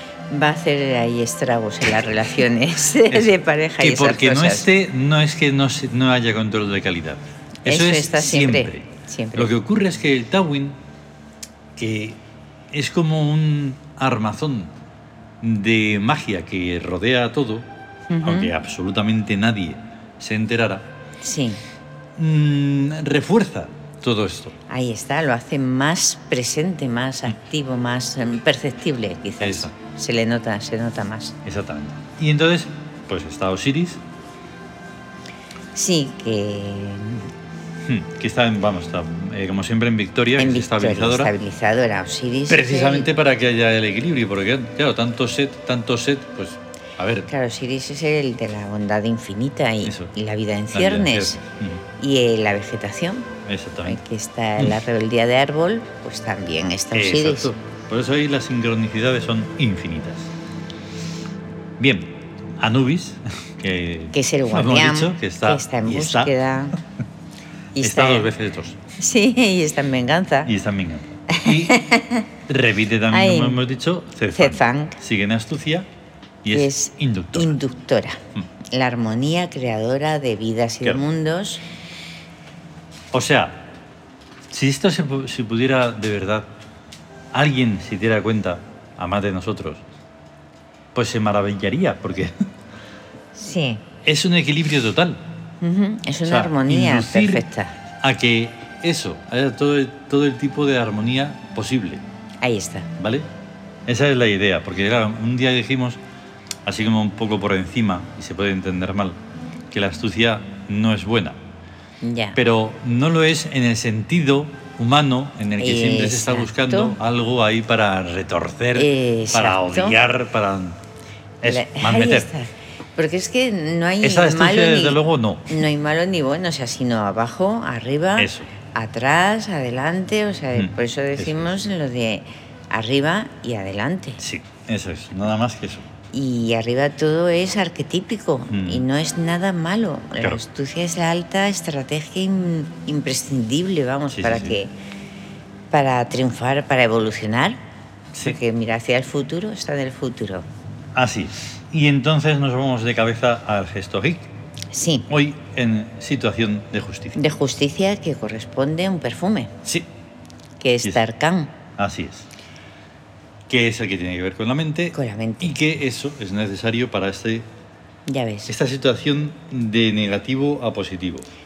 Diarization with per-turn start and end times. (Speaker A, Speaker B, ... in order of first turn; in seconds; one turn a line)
Speaker A: 0.3-4.7
Speaker B: 3.1-10.8
Speaker A: 7.7-9.5
Speaker B: 11.8-12.2
Speaker B: 12.7-14.7
Speaker B: 15.4-17.7
Speaker A: 18.1-18.5
Speaker B: 18.2-20.9
Speaker A: 21.2-21.6
Speaker B: 22.1-24.6
Speaker A: 24.7-31.4
Speaker B: 29.4-29.7
Speaker B: 31.4-34.0
Speaker A: 35.7-37.3
Speaker B: 37.8-41.3
Speaker A: 40.4-43.1
Speaker B: 42.5-47.3
Speaker A: 47.3-51.4
Speaker B: 49.8-50.1
Speaker B: 50.7-51.8
Speaker A: 52.0-53.3
Speaker B: 53.4-54.0
Speaker A: 53.8-57.5
Speaker B: 56.9-60.3
Speaker B: 61.8-66.3
Speaker A: 64.1-66.8
Speaker A: 67.7-68.3
Speaker B: 67.8-68.8
Speaker A: 69.0-70.5
Speaker B: 70.4-71.8
Speaker A: 71.3-72.3
Speaker B: 72.5-75.9
Speaker A: 73.1-73.6
Speaker A: 74.3-75.0
Speaker B: 76.4-77.6
Speaker A: 76.5-81.6
Speaker B: 83.1-83.7
Speaker B: 84.5-86.5
Speaker B: 87.3-89.8
Speaker B: 90.9-92.4
Speaker A: 93.3-93.8
Speaker B: 94.0-95.2
Speaker A: 95.6-97.7
Speaker B: 96.2-97.4
Speaker B: 98.0-102.0
Speaker A: 102.4-102.9
Speaker B: 103.0-103.2
Speaker B: 103.8-106.0
Speaker B: 106.6-109.2
Speaker B: 109.7-111.4
Speaker A: 112.0-112.4
Speaker B: 112.3-120.8
Speaker A: 115.6-117.0
Speaker A: 118.7-120.0
Speaker B: 121.4-122.3
Speaker A: 121.4-134.2
Speaker B: 124.0-125.6
Speaker B: 128.2-128.5
Speaker B: 130.5-131.6
Speaker B: 134.2-135.9
Speaker A: 136.1-144.7
Speaker B: 138.5-138.8
Speaker B: 144.1-144.6
Speaker A: 145.7-147.6
Speaker A: 148.2-150.4
Speaker B: 150.9-154.3
Speaker A: 154.7-155.1
Speaker B: 155.1-157.2
Speaker A: 157.1-159.5
Speaker A: 160.6-161.5
Speaker B: 161.8-162.3
Speaker B: 163.5-167.5
Speaker A: 164.9-165.6
Speaker A: 168.1-168.5
Speaker B: 168.5-171.3